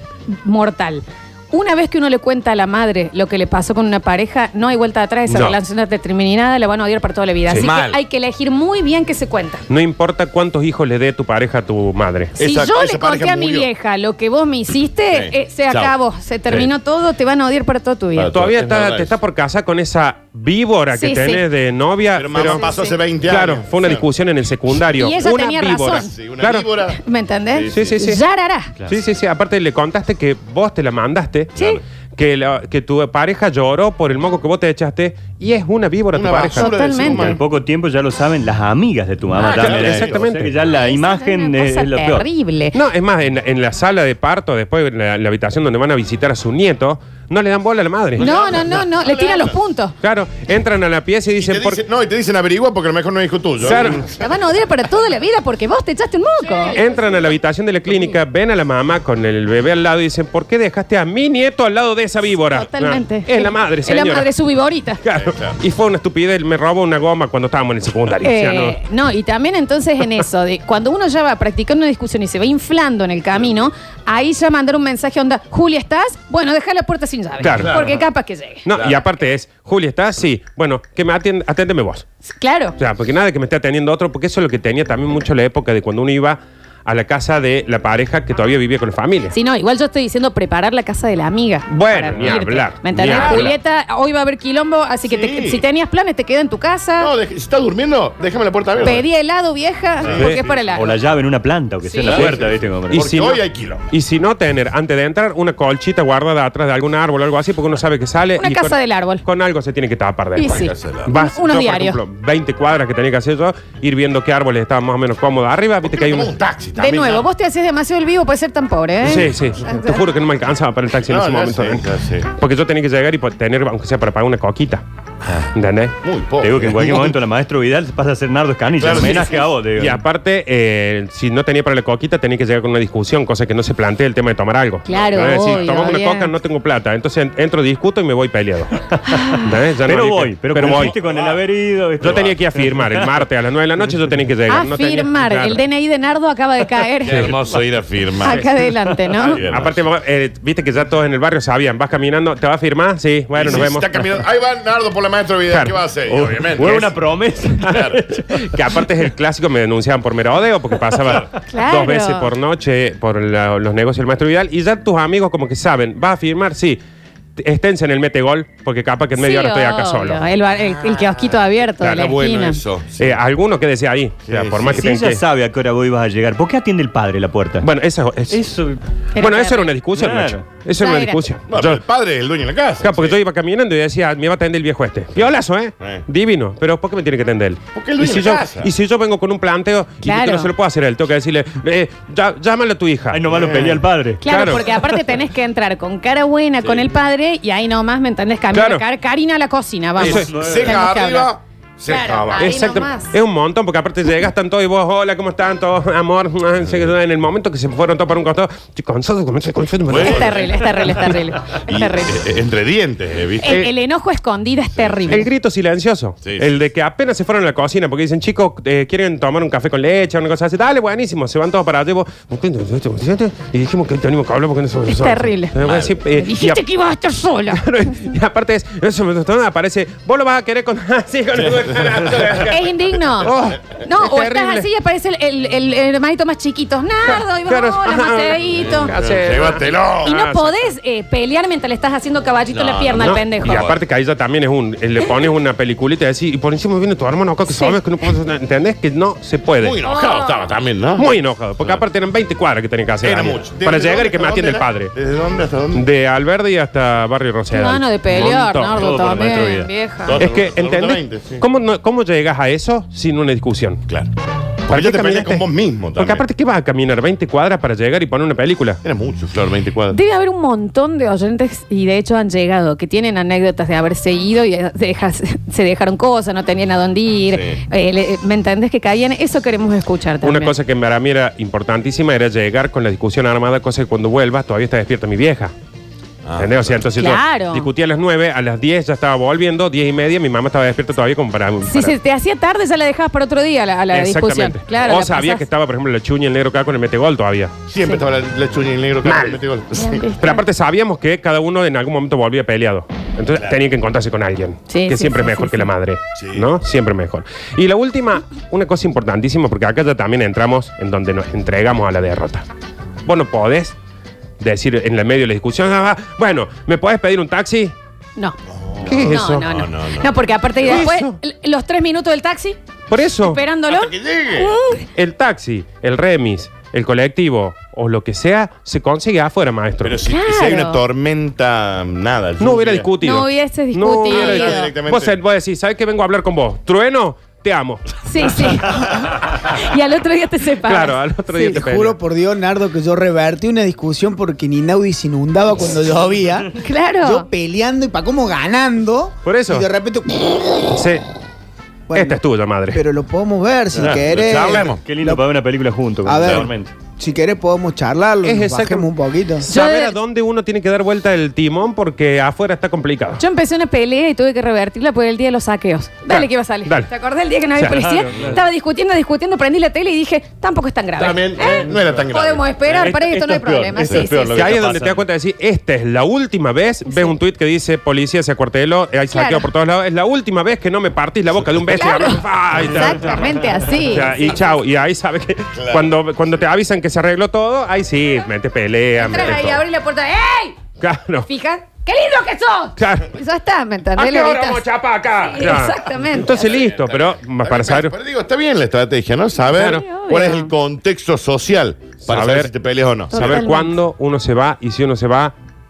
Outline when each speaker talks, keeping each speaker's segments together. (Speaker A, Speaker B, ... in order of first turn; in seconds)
Speaker A: 0.3-9.6, 12.4-18.3, 20.9-21.5, 22.4-23.0, 24.9-26.1, 26.9-28.7, 36.5-37.4, 39.3-39.9, 40.7-42.8, 48.2-49.9, 53.7-56.8, 62.5-65.0, 68.2-78.7, 82.3-82.8, 89.3-97.1, 98.8-101.0, 101.8-102.3, 108.4-109.2, 110.4-112.0, 116.8-120.0, 134.9-136.3, 139.1-139.5, 144.5-147.4, 148.2-149.4, 161.5-162.3, 169.2-172.6, 179.1-179.7, 180.8-181.2, 190.0-190.5, 194.2-201.3, 201.9-203.1, 210.0-212.2, 213.4-215.3, 224.8-225.5, 226.1-227.9, 232.5-238.9, 240.0-243.7, 247.5-247.8, 249.8-250.5, 257.5-260.2, 269.9-280.5, 286.9-287.7, 291.6-295.4, 299.7-300.4, 304.7-305.7, 319.0-322.6, 323.2-324.9, 330.0-330.8, 333.0-334.7, 338.1-341.5, 346.6-347.3, 359.5-359.9, 363.1-374.5, 376.9-377.2, 379.1-379.5, 381.7-384.4, 389.0-390.6, 391.2-394.6, 395.2-396.4, 399.7-400.5, 403.1-403.8
Speaker B: 5.3-5.6, 9.7-12.4, 18.3-22.6, 23.2-26.7, 27.7-28.2, 28.9-31.6, 32.1-36.7, 39.5-40.5, 42.7-48.3, 50.0-51.8, 53.6-54.0, 56.7-64.3, 65.0-68.8, 77.4-77.8, 78.6-82.0, 82.8-89.3, 91.7-93.6, 102.2-116.3, 119.0-124.8, 125.5-125.9, 129.8-138.7, 139.4-140.9, 142.0-145.6, 149.2-154.0, 155.5-155.8, 156.6-156.9, 157.6-166.8, 167.4-170.2, 173.0-175.2, 177.6-178.4, 179.2-181.8, 182.8-193.2, 194.2-194.7, 198.5-198.8, 202.1-210.3, 215.1-226.6, 227.5-232.6, 233.2-234.7, 237.1-240.5, 243.0-249.8, 251.0-254.9, 255.7-258.8, 260.2-263.8, 264.7-268.8, 280.2-285.5, 286.4-291.9, 293.9-297.5, 299.0-299.4, 300.2-312.4, 313.1-313.7, 314.4-317.7, 318.8-319.5, 320.6-321.2, 322.9-323.4, 324.9-330.0, 332.4-337.8, 340.6-342.0, 349.2-349.7, 350.7-351.1, 351.9-352.8, 358.2-358.9, 359.4-363.2, 366.1-366.9, 367.6-368.0, 374.3-383.1, 383.9-389.6, 390.8-391.3, 392.8-393.1, 393.9-397.9, 399.5-399.9, 402.0-402.5, 403.1-405.3
Speaker C: 7.5-8.0, 12.4-13.7, 15.1-15.9, 18.1-19.1, 22.1-24.1, 25.8-27.0, 27.5-28.0, 31.6-31.8, 36.1-37.4, 39.5-40.2, 48.2-49.6, 51.3-54.2, 65.1-65.6, 77.5-78.0, 78.7-79.0, 93.1-93.4, 95.0-95.6, 97.0-99.0, 100.0-100.5, 102.1-103.9, 110.5-111.1, 115.8-117.2, 121.0-122.3, 126.0-127.2, 128.7-129.6, 134.9-135.5, 140.5-141.4, 142.0-142.3, 147.0-148.5, 149.2-149.8, 153.3-156.9, 157.6-158.0, 171.9-173.2, 174.2-174.9, 181.5-183.2, 185.2-186.0, 187.8-188.7, 193.3-193.8, 196.6-197.0, 200.0-202.6, 209.9-211.0, 211.7-213.6, 214.8-215.3, 216.2-216.5, 225.6-226.0, 231.3-232.5, 238.5-240.2, 242.5-243.8, 249.6-251.8, 253.0-255.9, 260.1-261.4, 264.7-266.2, 268.8-270.0, 277.3-277.6, 286.2-286.9, 297.7-300.2, 306.1-306.5, 318.6-320.1, 323.6-324.5, 329.8-332.9, 334.1-335.2, 353.8-354.8, 356.2-356.5, 371.0-372.5, 385.6-385.9, 389.2-389.5, 396.1-403.5
Speaker D: 37.0-42.3, 100.0-103.0, 126.4-130.0, 139.1-143.1, 156.1-157.9, 174.7-177.7, 178.3-178.8, 179.9-180.4, 193.1-194.2, 200.0-200.8, 258.1-259.7, 353.7-356.7, 367.7-368.4, 372.6-375.1
Speaker E: 341.3-350.6, 351.9-355.2, 356.0-359.5